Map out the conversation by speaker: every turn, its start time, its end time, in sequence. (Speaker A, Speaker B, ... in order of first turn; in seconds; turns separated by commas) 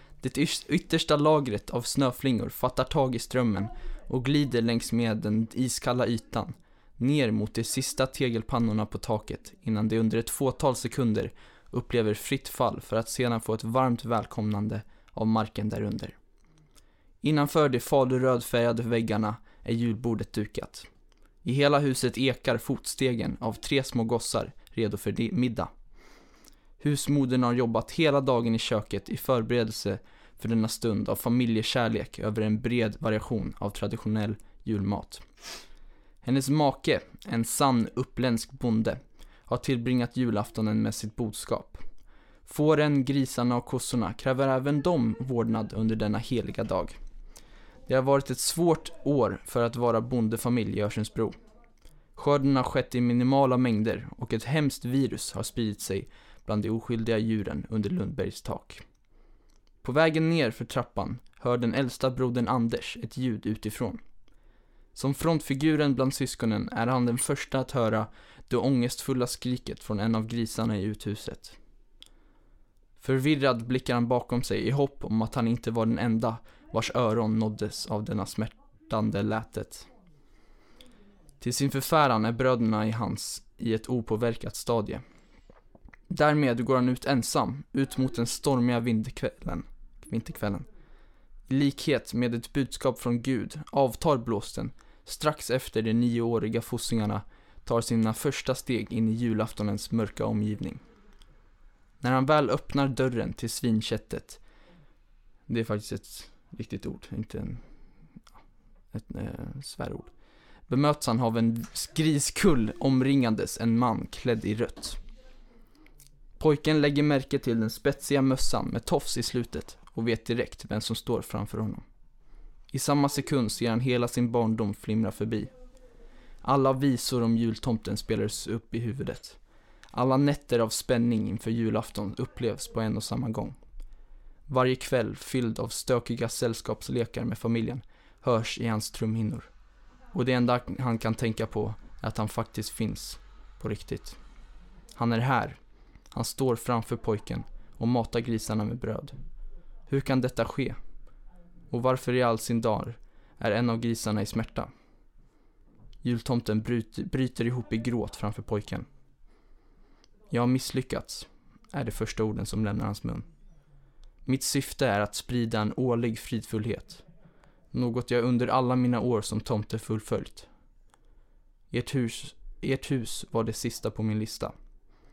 Speaker A: 0.2-16.2, Speaker A: 17.2-20.9, Speaker A: 21.4-25.7, Speaker A: 26.8-35.2, Speaker A: 36.2-41.8, Speaker A: 42.5-47.0, Speaker A: 47.9-51.4, Speaker A: 52.2-58.8, Speaker A: 59.8-64.0, Speaker A: 65.0-71.6, Speaker A: 73.0-79.9, Speaker A: 81.4-85.0, Speaker A: 86.1-90.7, Speaker A: 91.5-100.8, Speaker A: 102.0-104.4, Speaker A: 105.5-107.6, Speaker A: 108.9-110.1, Speaker A: 110.7-115.0, Speaker A: 116.4-121.8, Speaker A: 122.7-125.5, Speaker A: 126.4-129.4, Speaker A: 129.9-133.6, Speaker A: 134.5-139.5, Speaker A: 140.1-144.2, Speaker A: 145.0-145.6, Speaker A: 146.1-149.2, Speaker A: 149.9-150.8, Speaker A: 151.7-154.7, Speaker A: 156.0-158.9, Speaker A: 160.3-163.3, Speaker A: 164.2-167.0, Speaker A: 167.7-170.5, Speaker A: 171.7-174.6